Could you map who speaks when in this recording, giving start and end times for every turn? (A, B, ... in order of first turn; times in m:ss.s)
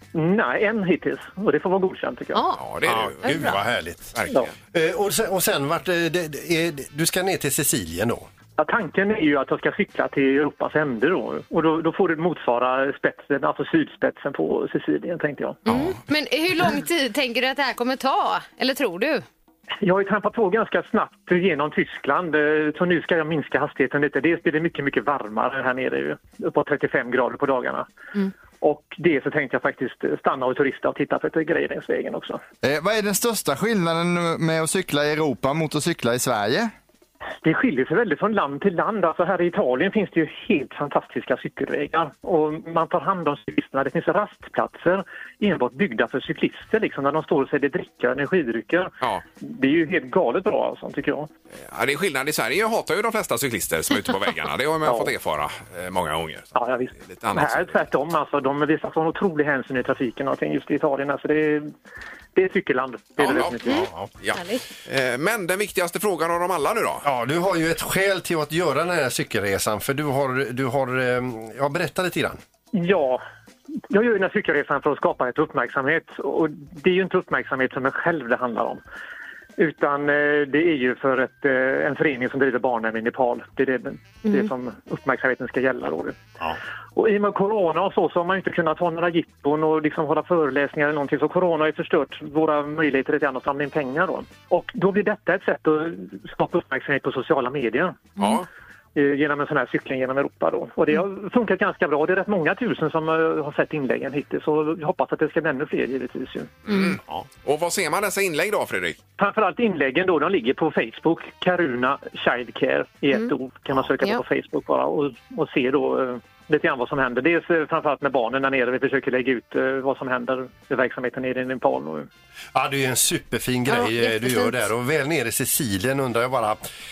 0:00.1-0:02.4 A
0:02.3-0:02.6 B
0:02.6-0:03.4 C
0:02.8-0:04.2 D
0:03.2-0:03.6 B
0:04.2-0:04.5 C
0:04.7-0:08.3 D
0:08.6-0:15.6 A
0:15.7-0:19.2 B
0:15.7-0:16.0 C
0:19.8-0:27.9 A
0:28.6-0:32.4 A
0:32.6-0:36.7 E
0:37.4-0:51.3 A
0:51.6-0:56.5 C
0:54.8-0:55.1 A
0:56.6-1:01.7 A
0:57.0-0:57.7 C
1:02.4-1:03.9 A
1:03.2-1:07.1 C
1:03.6-1:04.6 B
1:07.0-1:12.4 D
1:12.7-1:13.2 A
1:13.9-1:18.8 A
1:19.6-1:26.2 A
1:27.0-1:38.1 A
1:38.2-1:38.5 C
1:39.0-1:46.5 A
1:46.7-1:49.0 C
1:46.7-1:46.9 B
1:49.2-2:02.1 A
2:02.5-2:06.6 D
2:03.7-2:04.6 B